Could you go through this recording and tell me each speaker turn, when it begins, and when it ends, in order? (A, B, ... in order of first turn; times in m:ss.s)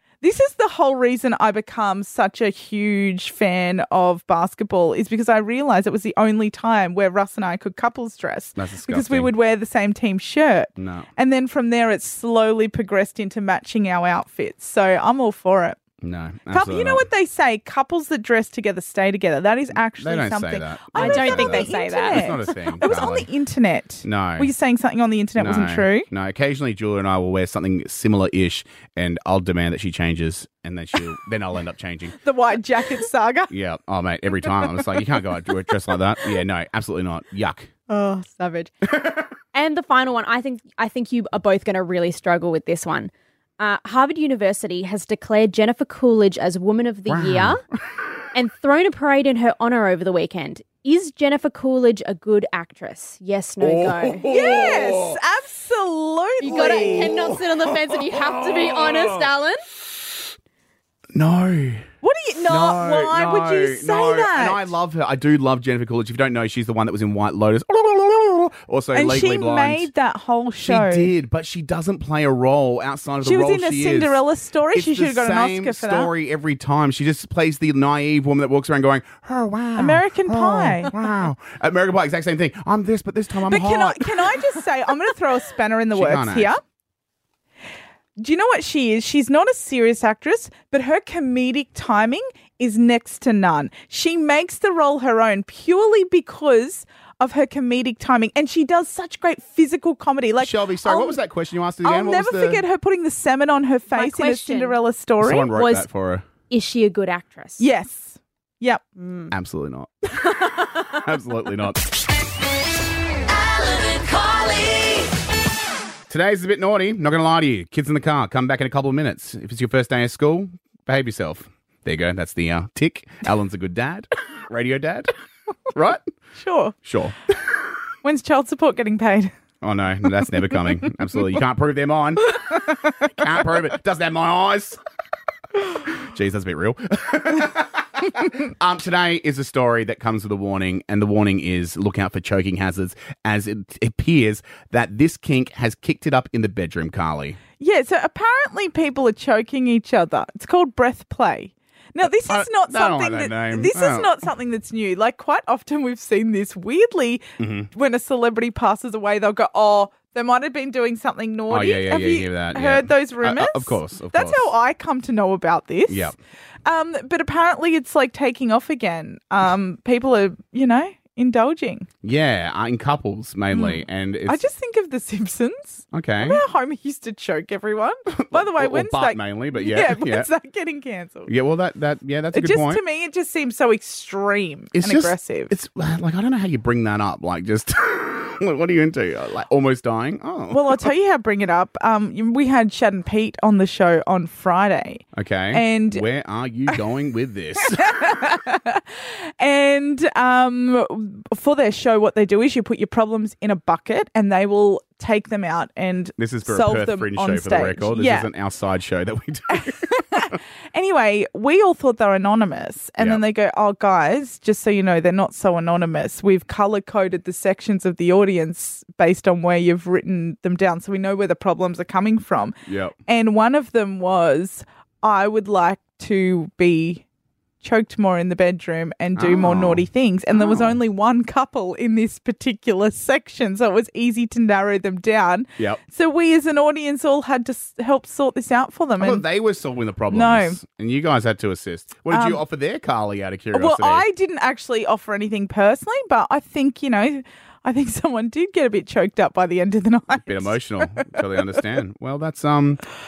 0:00.2-0:15.8 A
0:08.6-0:09.3 B
0:10.8-0:11.1 B
0:16.0-0:17.1 B
0:16.5-0:26.1 A
0:20.0-0:23.3 B
0:21.0-0:22.6 C
0:24.0-0:24.5 B
0:25.4-0:32.2 B
0:32.2-0:33.5 A
0:33.5-0:37.7 B
0:37.9-0:38.7 C
0:39.5-0:47.6 C
0:47.1-0:47.6 B
0:48.3-0:54.3 C
0:53.6-0:55.2 B
0:54.2-0:57.1 A
0:56.4-0:59.6 C
0:56.4-0:59.3 B
1:01.1-1:01.8 B
1:02.0-1:04.7 A
1:02.5-1:09.9 B
1:08.9-1:11.1 A
1:10.6-1:14.2 B
1:13.2-1:16.1 A
1:14.7-1:24.4 B
1:19.8-1:20.9 A
1:23.4-1:26.6 A
1:25.9-1:26.5 B
1:28.2-1:41.2 A
1:40.4-1:42.6 B
1:41.8-1:45.5 A
1:43.9-1:44.8 C
1:45.2-1:46.3 B
1:45.5-1:45.8 C
1:46.5-1:47.6 C
1:47.6-1:48.8 A
1:49.0-1:49.3 C
1:49.3-1:51.8 B
1:56.1-2:05.1 B
2:05.7-2:06.0 B
2:06.4-2:06.8 A
2:06.8-2:07.6 B
2:08.0-2:09.3 A
2:09.6-2:14.8 B
2:15.8-2:27.4 B
2:27.6-2:46.1 A
2:32.2-2:34.1 B
2:37.4-2:37.7 B
2:41.5-2:44.5 B
2:45.9-2:46.1 B
2:46.6-2:51.9 A
2:52.0-2:54.4 B
2:53.5-3:01.3 A
2:55.9-2:56.4 B
2:58.1-3:00.3 B
3:01.3-3:02.8 B
3:02.3-3:05.5 A
3:04.7-3:10.9 B
3:10.5-3:16.0 A
3:15.1-3:18.2 B
3:17.8-3:28.3 A
3:26.2-3:30.4 B
3:29.5-3:42.5 A
3:42.6-3:43.0 B
3:43.0-3:47.0 A
3:47.6-3:59.2 A
3:49.2-3:50.8 B
3:59.0-4:04.0 B
4:00.1-4:00.6 A
4:02.1-4:02.4 A
4:03.5-4:11.2 A
4:10.2-4:12.8 B